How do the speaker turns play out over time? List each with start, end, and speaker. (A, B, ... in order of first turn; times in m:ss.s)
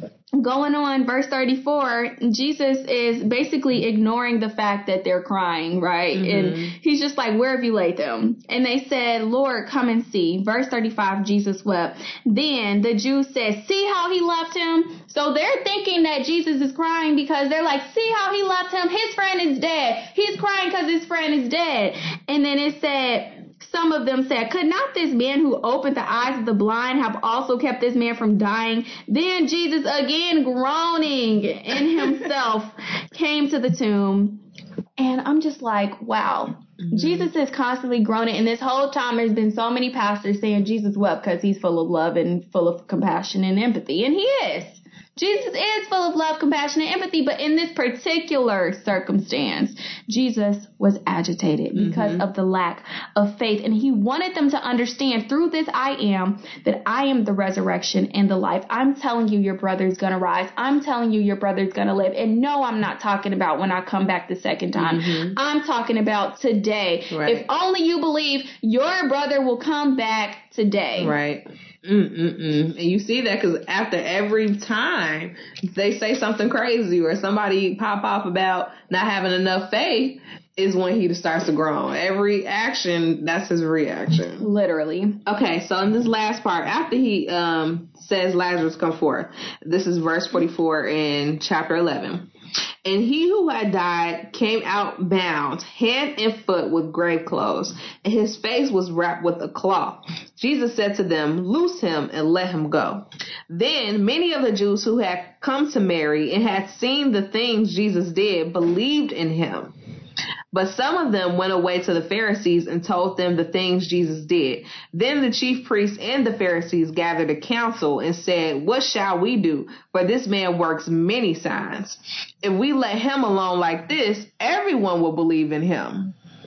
0:00.4-0:34.4 A
0:06.1-0:06.7 B
0:35.0-1:11.1 A
0:36.8-0:37.3 B
0:51.7-0:52.2 B
1:04.8-1:05.4 B
1:07.1-1:07.4 B
1:11.0-1:24.4 B
1:24.4-1:25.2 A
1:25.3-1:32.3 B
1:32.8-1:49.7 B
1:50.5-2:06.1 B